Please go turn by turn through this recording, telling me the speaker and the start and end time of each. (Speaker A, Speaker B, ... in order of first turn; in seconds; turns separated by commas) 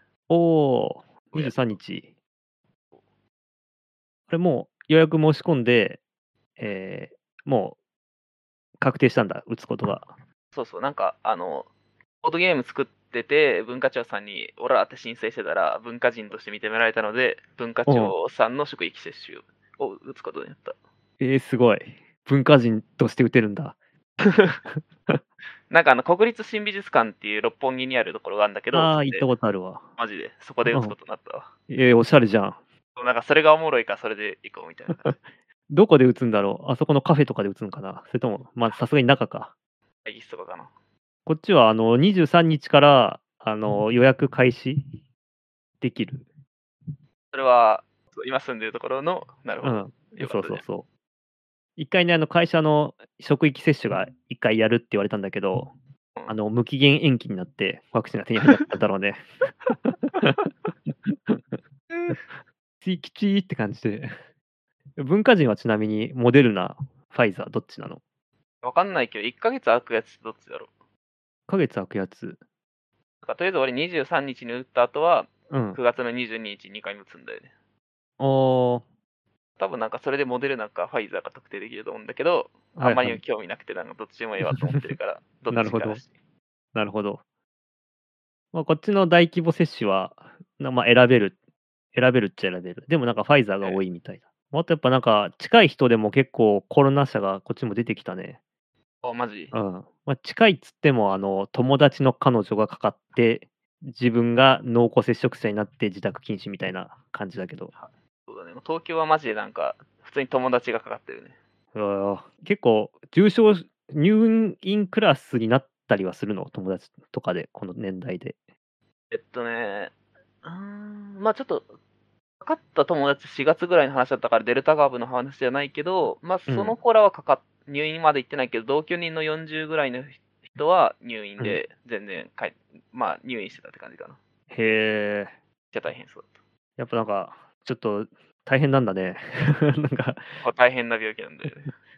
Speaker A: 0.3-2.1, Speaker B: 1.3-1.6, Speaker A: 4.3-6.0, Speaker A: 6.6-7.8, Speaker A: 8.8-10.1, Speaker B: 10.5-11.7, Speaker B: 12.2-20.8, Speaker A: 17.9-18.1, Speaker A: 21.2-23.8, Speaker A: 24.7-25.2, Speaker B: 25.7-29.3, Speaker A: 28.7-29.8, Speaker B: 30.0-31.5, Speaker A: 30.7-30.9, Speaker A: 31.7-32.6, Speaker B: 33.0-35.2, Speaker A: 35.7-39.5, Speaker B: 40.0-40.7, Speaker A: 41.3-45.0, Speaker A: 45.8-46.3, Speaker B: 47.3-50.6, Speaker A: 49.6-50.9, Speaker A: 51.8-55.7, Speaker A: 56.3-61.5, Speaker B: 61.9-62.2, Speaker A: 62.8-64.1, Speaker A: 65.0-68.0, Speaker B: 68.6-70.7, Speaker A: 71.5-72.4, Speaker B: 73.2-77.5, Speaker A: 75.5-75.8, Speaker A: 78.2-78.8, Speaker B: 79.6-86.1, Speaker A: 82.8-83.2, Speaker A: 84.4-84.8, Speaker A: 85.5-86.0, Speaker A: 86.8-87.2, Speaker A: 88.5-91.4, Speaker A: 91.9-98.4, Speaker B: 99.0-99.5, Speaker A: 99.5-107.7, Speaker B: 107.8-111.3, Speaker A: 111.7-118.3, Speaker B: 119.1-121.7, Speaker B: 122.4-134.2, Speaker A: 126.5-126.8, Speaker A: 134.5-135.3, Speaker B: 135.7-136.3, Speaker A: 136.8-140.2, Speaker B: 140.4-141.7